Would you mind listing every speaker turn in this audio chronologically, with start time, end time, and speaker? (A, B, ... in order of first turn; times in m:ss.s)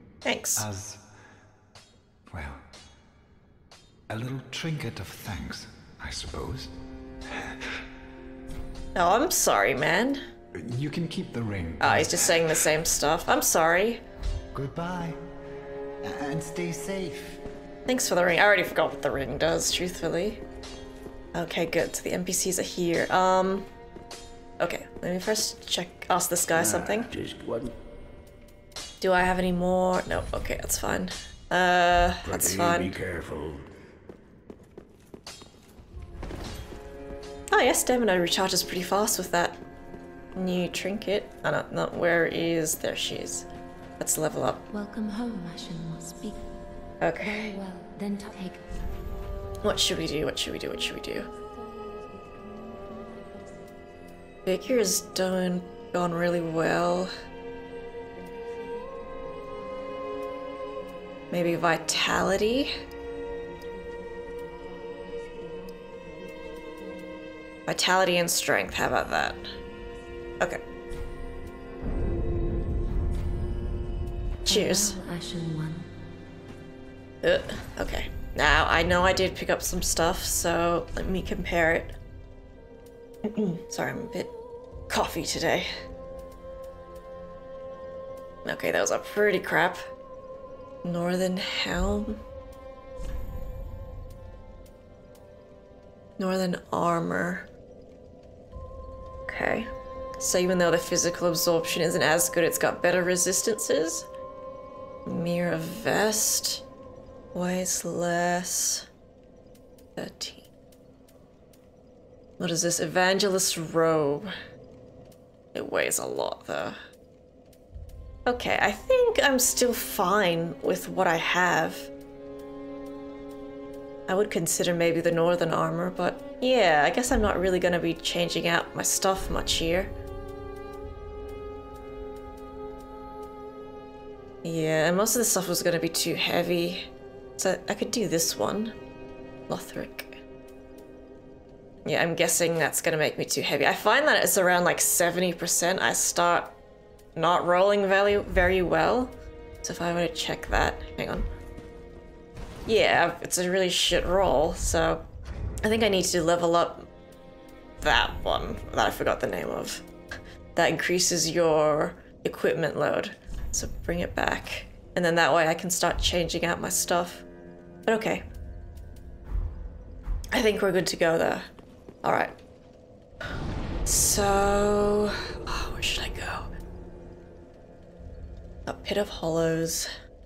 0:00.2-0:00.6 A
0:00.6-0:01.0 B
0:02.3-0:02.6 B
0:04.1-0:06.7 B
0:07.2-0:07.7 B
0:08.9-0:10.2 A
0:10.5-0:12.6 B
0:11.8-0:14.0 A
0:14.5-0:15.2 B
0:16.0-0:17.4 B
0:17.9-0:20.4 A
0:21.3-0:23.7 A
0:24.6-0:27.1 A
0:26.6-0:27.7 C
0:29.0-0:33.0 A
0:32.2-0:33.6 C
0:37.5-0:39.6 A
0:40.4-0:43.5 A
0:44.0-0:44.6 A
0:44.7-0:46.5 D
0:47.0-0:47.6 A
0:47.2-0:48.6 D
0:49.6-0:51.3 A
0:51.7-0:53.5 D
0:54.4-0:57.1 A
0:58.6-0:59.0 D
1:01.3-1:02.7 A
1:05.0-1:07.1 D
1:07.7-1:09.5 A
1:14.4-1:14.9 A
1:14.5-1:15.9 D
1:17.2-1:21.9 A
1:23.2-1:24.3 A
1:24.9-1:25.7 A
1:28.4-1:29.8 A
1:30.8-1:32.2 A
1:36.2-1:37.5 A
1:39.3-1:44.1 A
1:45.0-1:46.6 A
1:47.3-1:48.9 A
1:50.0-1:50.5 A
1:52.4-1:54.3 A
1:55.5-1:56.8 A
1:58.2-2:01.9 A
2:04.1-2:09.9 A
2:14.4-2:18.8 A
2:19.5-2:20.2 A
2:21.8-2:26.6 A
2:27.2-2:31.3 A
2:32.7-2:35.0 A
2:35.6-2:36.9 A
2:37.8-2:39.9 A
2:40.5-2:47.2 A
2:47.8-2:48.2 A
2:50.3-2:51.4 A
2:52.0-2:52.4 A
2:53.8-2:56.5 A
2:58.6-2:59.9 A